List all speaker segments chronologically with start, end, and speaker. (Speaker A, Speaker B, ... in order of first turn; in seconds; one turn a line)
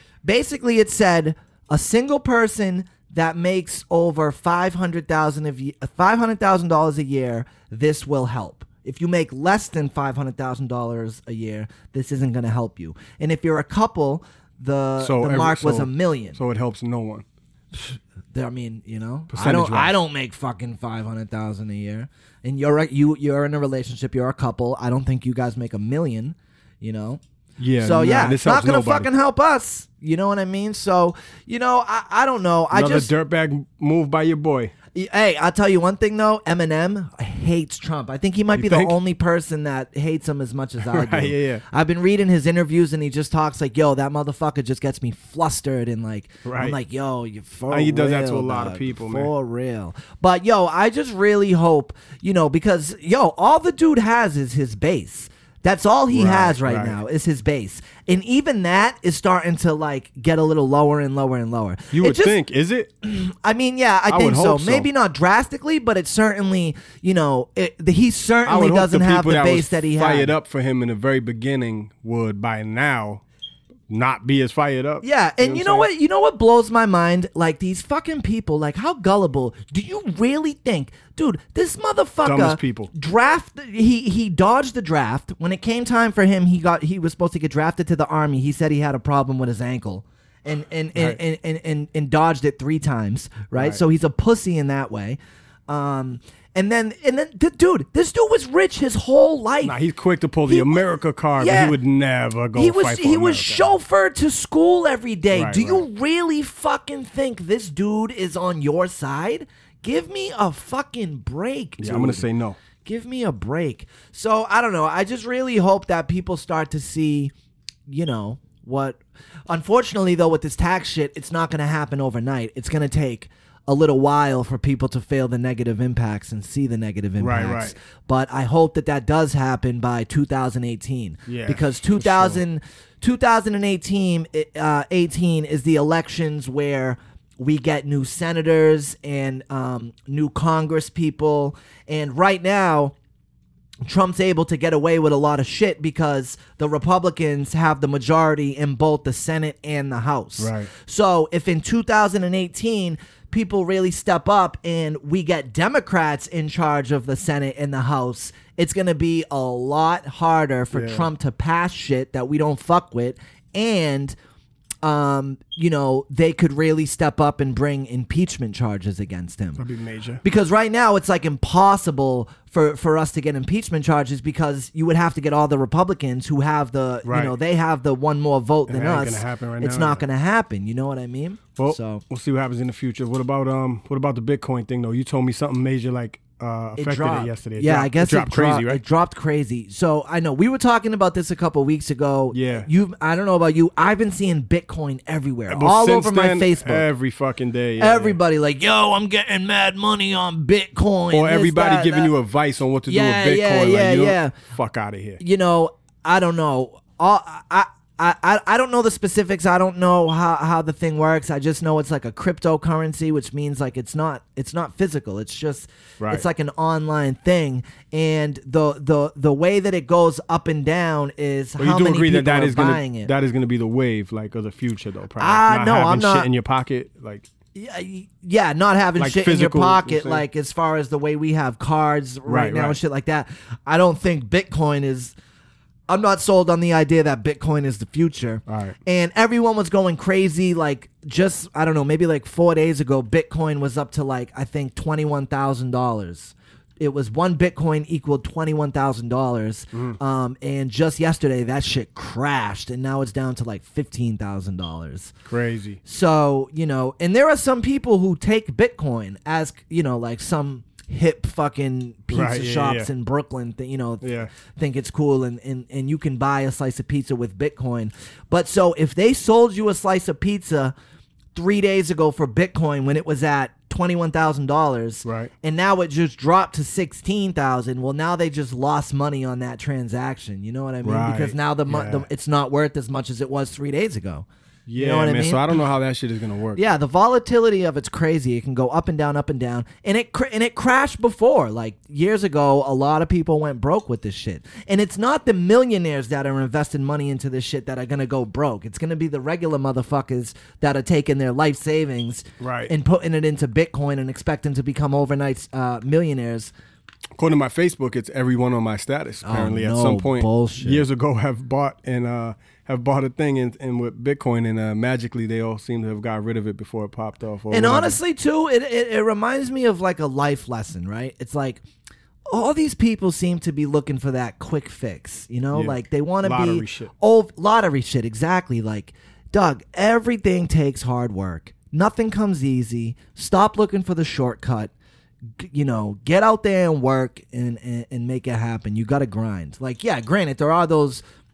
Speaker A: 0.2-16.4
Speaker B: 15.0-17.2
Speaker A: 17.7-27.2
Speaker B: 19.3-19.9
Speaker B: 27.6-29.1
Speaker A: 27.8-33.1
Speaker B: 32.7-34.7
Speaker A: 35.0-62.4
Speaker B: 38.5-39.0
Speaker B: 40.8-41.6
Speaker B: 46.5-46.8
Speaker B: 47.7-49.3
Speaker B: 56.1-57.0
Speaker B: 61.9-62.9
Speaker A: 63.0-70.3
Speaker B: 64.1-64.9
Speaker B: 68.5-73.2
Speaker B: 73.9-75.9
Speaker A: 75.0-95.2
Speaker B: 82.2-82.9
Speaker A: 95.7-99.8
Speaker B: 99.6-103.7
Speaker A: 100.5-100.8
Speaker A: 101.4-101.8
Speaker A: 102.5-112.2
Speaker B: 105.3-105.8
Speaker B: 111.8-112.6
Speaker A: 112.8-117.3
Speaker A: 117.9-142.9
Speaker B: 127.2-127.8
Speaker B: 131.3-132.4
Speaker A: 143.8-164.2
Speaker B: 150.4-150.7
Speaker B: 160.7-161.1
Speaker A: 164.8-169.6
Speaker B: 169.6-170.2
Speaker A: 170.2-182.0
Speaker B: 177.1-177.3
Speaker B: 178.7-180.1
Speaker B: 181.6-188.8
Speaker A: 186.8-196.9
Speaker B: 192.3-192.7
Speaker B: 195.5-198.2
Speaker A: 197.8-202.1
Speaker B: 201.1-205.2
Speaker A: 202.9-204.3
Speaker A: 205.2-223.1
Speaker B: 221.6-227.3
Speaker A: 225.2-226.3
Speaker A: 227.5-235.2
Speaker B: 229.0-230.2
Speaker B: 232.3-232.8
Speaker A: 235.9-255.1
Speaker B: 238.5-238.8
Speaker B: 255.3-255.8
Speaker A: 255.8-270.8
Speaker B: 262.1-262.9
Speaker B: 264.0-264.3
Speaker A: 271.4-284.3
Speaker B: 275.1-275.3
Speaker B: 280.8-282.1
Speaker B: 284.7-286.6
Speaker A: 284.8-285.5
Speaker A: 286.6-306.5
Speaker B: 302.4-302.7
Speaker B: 307.2-318.0
Speaker A: 309.2-310.8
Speaker A: 317.5-321.6
Speaker A: 322.3-334.7
Speaker B: 325.5-326.9
Speaker A: 335.4-341.0